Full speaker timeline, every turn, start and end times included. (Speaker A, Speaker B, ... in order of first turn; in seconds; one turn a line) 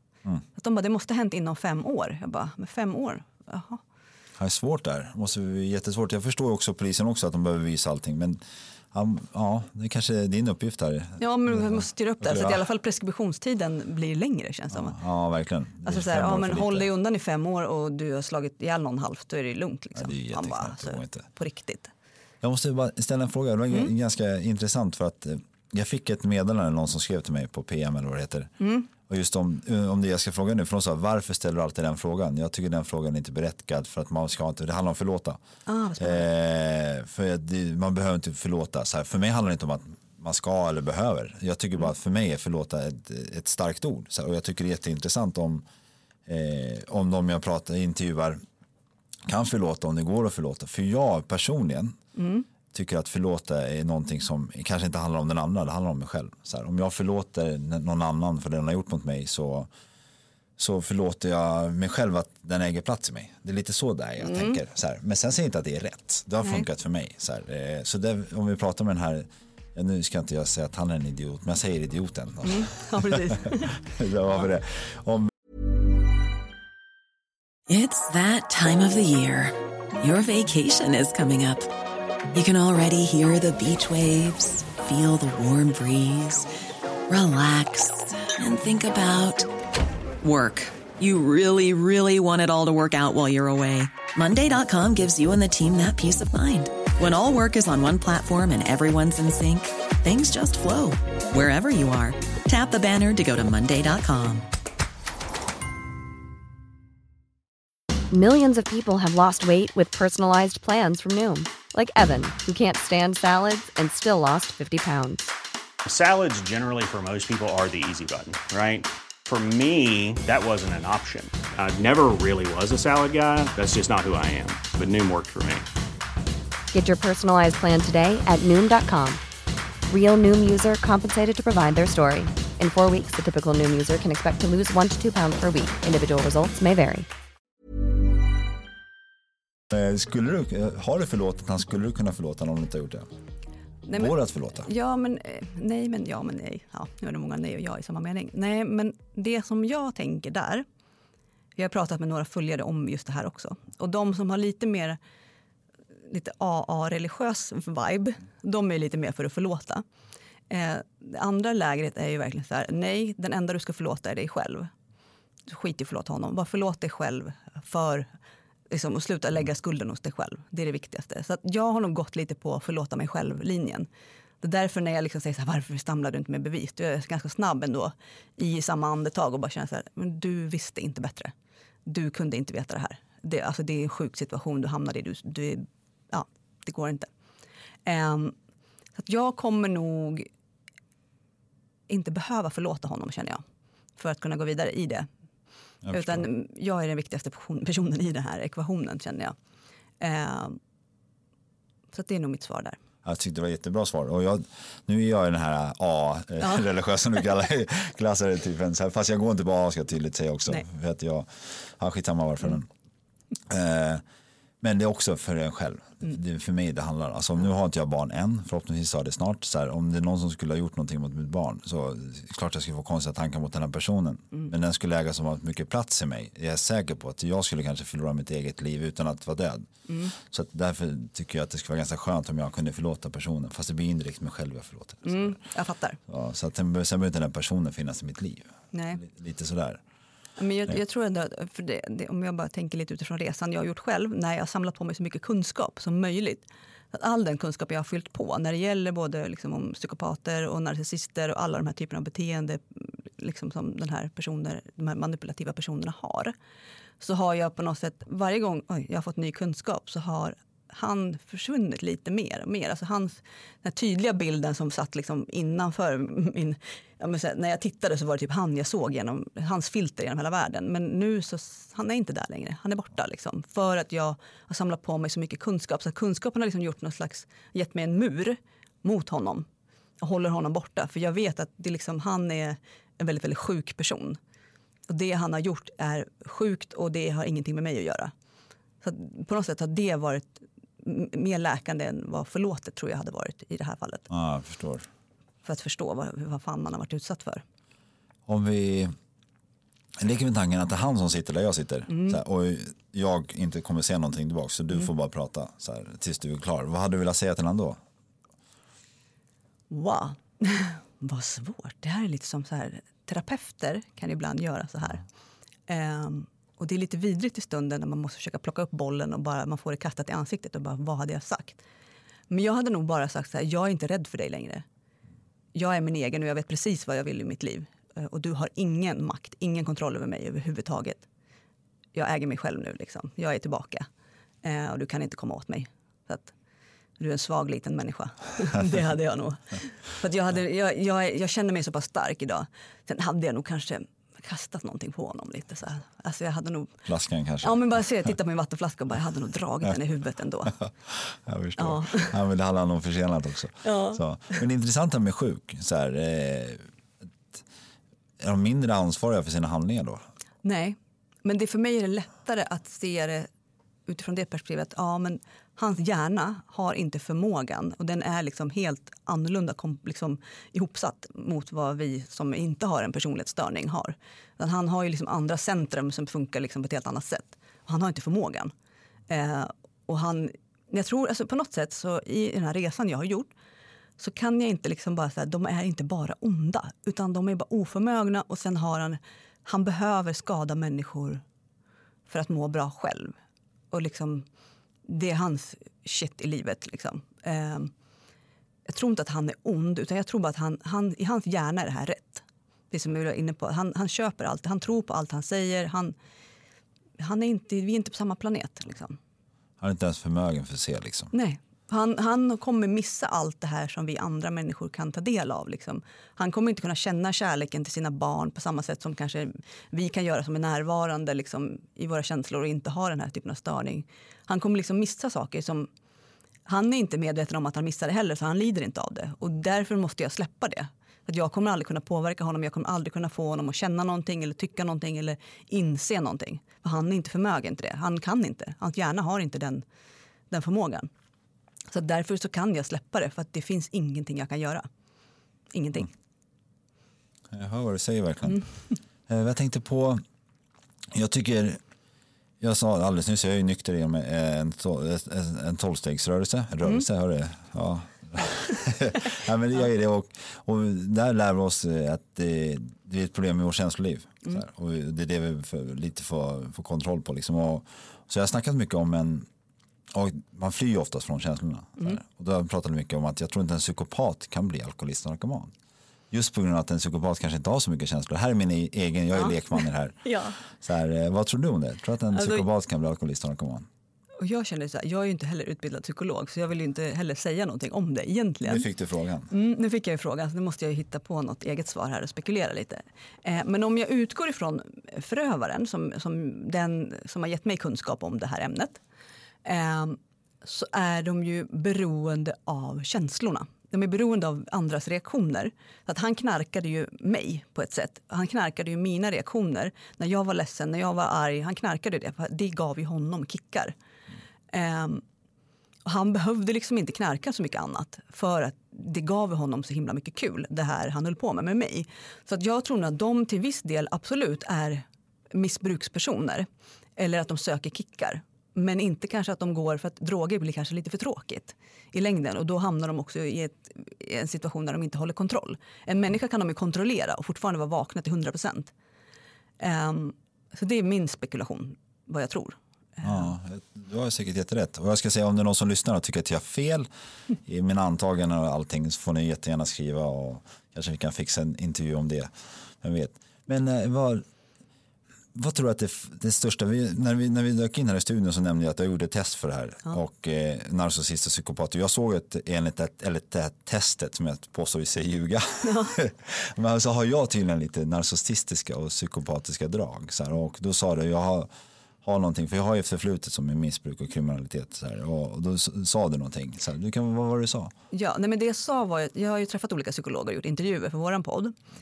Speaker A: 0.6-3.8
Speaker B: 4.4-8.4
Speaker B: 8.9-12.6
Speaker A: 11.2-15.0
Speaker B: 14.7-16.9
Speaker A: 15.8-21.9
Speaker B: 19.9-21.3
Speaker B: 22.4-35.4
Speaker A: 28.6-28.9
Speaker A: 35.7-36.3
Speaker B: 36.0-45.6
Speaker B: 46.3-48.4
Speaker B: 49.3-52.0
Speaker A: 52.1-52.5
Speaker B: 52.7-59.7
Speaker B: 60.6-75.3
Speaker A: 64.2-64.6
Speaker A: 72.4-73.7
Speaker C: 77.7-81.7
Speaker C: 82.3-86.5
Speaker C: 87.1-89.5
Speaker C: 90.2-104.5
Speaker D: 108.1-115.3
Speaker E: 115.8-125.7
Speaker D: 126.7-129.2
Speaker D: 129.9-137.1
Speaker B: 139.7-143.1
Speaker A: 143.9-150.7
Speaker B: 143.9-144.7
Speaker A: 151.6-155.0
Speaker A: 156.1-159.8
Speaker A: 160.5-164.7
Speaker A: 165.5-168.1
Speaker A: 168.7-173.9
Speaker A: 174.4-181.3
Speaker A: 181.9-187.1
Speaker A: 187.9-188.3
Speaker A: 189.0-190.3
Speaker A: 191.9-193.4
Speaker A: 194.0-195.1
Speaker B: 195.8-196.3
Speaker A: 195.9-199.3
Speaker A: 200.0-200.6
Speaker A: 201.9-202.8
Speaker B: 203.0-212.7
Speaker B: 213.5-214.0
Speaker B: 214.6-235.4
Speaker A: 229.9-230.1
Speaker A: 235.0-236.0
Speaker B: 236.1-239.8
Speaker A: 238.7-239.0
Speaker A: 240.4-256.3
Speaker A: 257.0-279.5
Speaker A: 280.0-284.2
Speaker A: 284.9-288.1
Speaker A: 288.8-294.1
Speaker B: 294.1-294.9
Speaker A: 295.4-297.4
Speaker B: 298.3-298.9
Speaker B: 300.0-307.8
Speaker A: 301.9-302.2
Speaker A: 309.7-315.0
Speaker A: 315.7-321.6
Speaker A: 322.3-324.6
Speaker A: 325.6-331.1
Speaker A: 331.9-333.9
Speaker A: 334.4-336.3
Speaker A: 337.0-346.8
Speaker B: 346.9-347.8
Speaker A: 347.4-350.6
Speaker B: 350.6-356.6
Speaker A: 351.6-352.1
Speaker A: 353.6-354.0
Speaker B: 358.2-360.1
Speaker A: 360.4-363.3
Speaker A: 363.9-378.5
Speaker A: 379.1-383.3
Speaker A: 384.0-391.2
Speaker A: 392.1-393.1
Speaker A: 393.7-394.3
Speaker A: 394.9-397.7
Speaker A: 398.7-405.9
Speaker A: 407.0-409.0
Speaker B: 409.6-411.1
Speaker A: 411.1-425.7
Speaker A: 426.5-439.6
Speaker A: 440.3-440.9
Speaker A: 441.7-444.7
Speaker A: 445.5-445.9
Speaker B: 447.3-448.4
Speaker B: 449.1-450.0
Speaker B: 450.9-451.6
Speaker B: 452.4-469.3
Speaker B: 469.9-475.5
Speaker B: 476.1-483.7
Speaker A: 479.1-480.4
Speaker A: 482.1-482.5
Speaker A: 484.2-488.7
Speaker B: 488.4-489.3
Speaker A: 489.3-498.8
Speaker A: 499.4-513.8
Speaker A: 514.5-515.0
Speaker A: 515.9-538.7
Speaker A: 539.6-543.3
Speaker B: 543.0-546.9
Speaker B: 547.5-554.2
Speaker B: 555.3-571.5
Speaker A: 565.6-566.0
Speaker B: 572.0-577.7
Speaker A: 577.9-581.5